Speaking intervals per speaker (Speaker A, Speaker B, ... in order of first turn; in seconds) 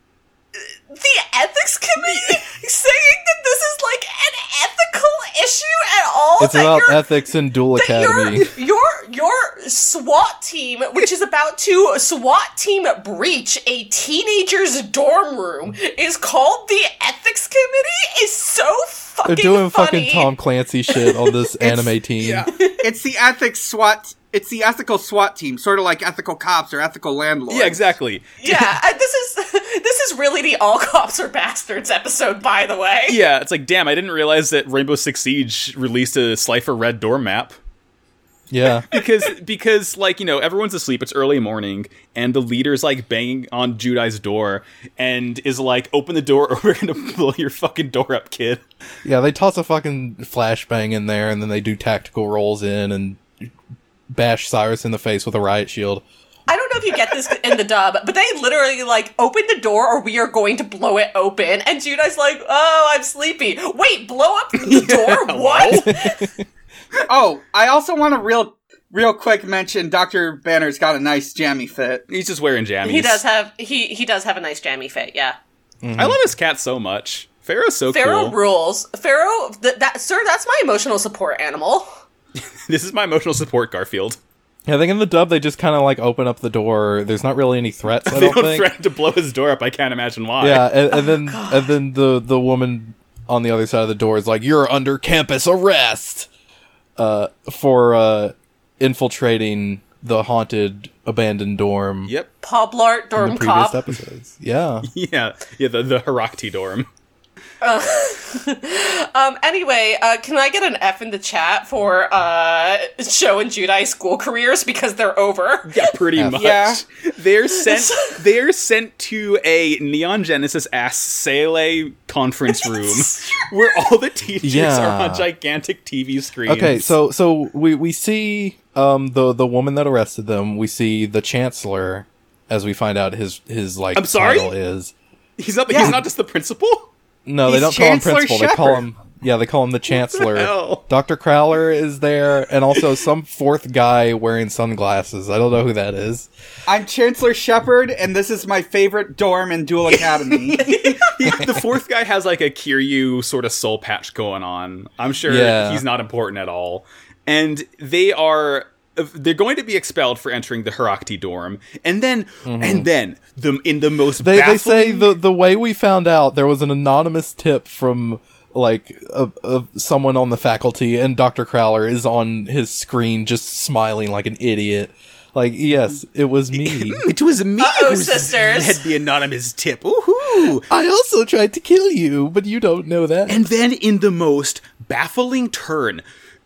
Speaker A: 0.5-7.1, 7.7-20.3, 20.9-21.9, 22.5-22.9, 28.4-33.2, 56.5-66.3, 72.8-75.3, 77.9-81.9, 90.9-91.7, 102.4-103.8, 107.6-116.0, 117.5-118.2, 122.6-123.4, 150.6-151.1, 177.6-178.8
Speaker B: 2.0-2.4, 22.2-22.5, 27.5-28.7, 33.1-37.5, 38.9-48.6, 64.6-66.0, 72.1-73.2, 75.9-78.4, 82.7-84.2, 88.0-90.7, 104.8-106.9, 115.7-126.9, 133.9-134.5, 135.4-136.9, 139.9-140.8, 149.9-165.1, 176.5-180.6, 183.3-186.0
Speaker C: 6.4-8.5, 19.2-22.5, 38.5-38.9, 49.0-53.2, 54.1-56.0, 65.9-66.2, 75.8-76.2, 84.7-88.7, 90.4-96.3, 97.0-102.1, 103.2-104.9, 116.1-116.4, 124.4-125.3, 126.5-134.9, 137.2-146.3, 155.3-155.8, 162.4-162.9, 164.2-177.1, 180.7-183.4
Speaker D: 22.8-27.8, 67.1-72.0, 116.3-116.8, 135.7-136.0, 137.4-138.8, 146.7-150.6